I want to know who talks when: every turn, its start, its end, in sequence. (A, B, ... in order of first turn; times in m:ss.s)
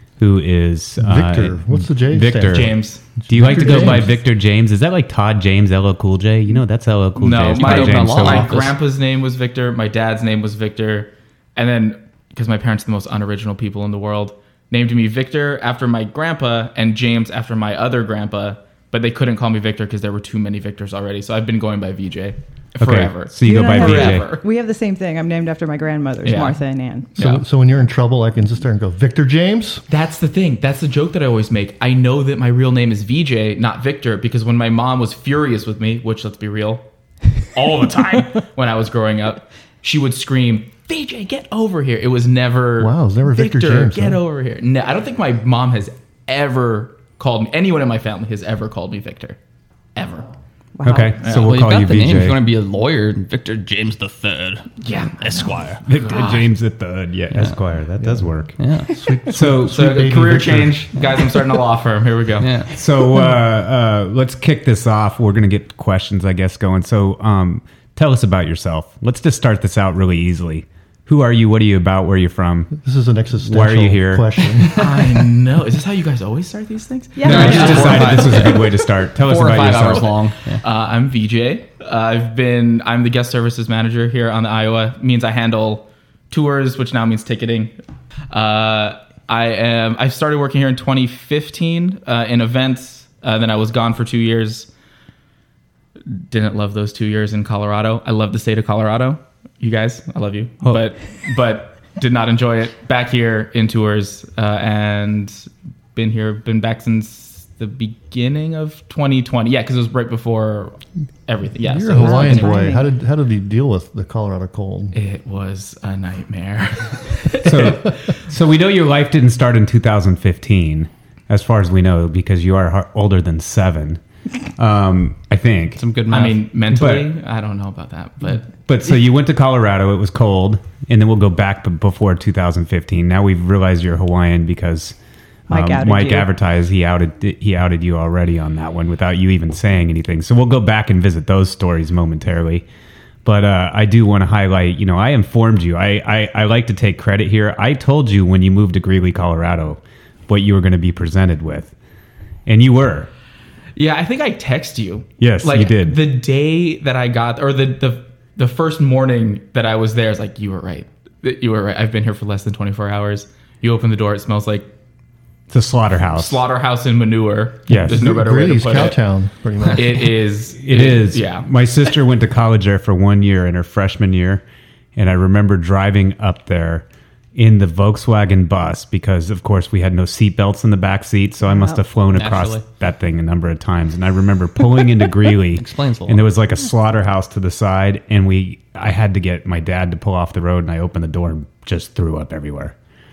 0:00.2-0:08.6 A
0:01.0-0:04.1 B
0:02.5-0:04.1 C
0:07.2-0:24.4 C
0:07.5-0:08.8 D
0:22.8-0:24.3 A
0:23.4-0:27.1 E
0:26.2-0:26.6 C
0:27.1-0:29.8 B
0:27.2-0:27.4 C
0:29.9-0:36.8 C
0:37.4-0:49.4 C
0:42.8-0:44.2 B
0:49.9-0:50.3 C
0:50.8-0:51.2 E
0:50.8-0:52.4 A
0:51.2-0:51.5 C
0:51.3-0:55.8 D
0:54.8-0:56.5 C
0:55.8-0:58.5 A
0:58.0-0:58.3 B
0:58.6-0:58.9 D
0:58.9-1:00.9 B
0:59.3-1:00.1 A
0:59.6-1:02.5 C
1:02.4-1:02.7 D
1:02.7-1:12.7 A
1:12.7-1:14.8 B
1:13.4-1:14.4 A
1:14.7-1:18.3 C
1:17.2-1:18.2 E
1:17.2-1:20.1 A
1:17.2-1:20.6 D
1:19.6-1:27.7 C
1:28.3-1:34.7 C
1:36.1-1:52.6 C
1:51.6-1:55.0 B
1:52.0-1:52.9 E
1:54.9-1:58.0 C
1:57.4-2:04.0 A
2:04.6-2:05.8 A
2:05.8-2:06.4 D
2:06.1-2:08.5 C
2:06.7-2:07.1 A
2:08.6-2:15.0 A
2:15.5-2:22.6 A
2:15.5-2:16.3 E
2:23.2-2:31.7 A
2:32.4-2:33.1 A
2:33.8-2:44.7 C
2:35.2-2:36.0 A
2:45.5-2:46.4 A
2:46.0-2:49.0 C
2:47.7-2:48.0 A
2:47.7-2:50.0 B
2:49.6-2:51.5 C
2:50.6-2:54.4 A
2:55.0-3:12.7 A
3:02.1-3:02.6 D
3:05.6-3:06.2 D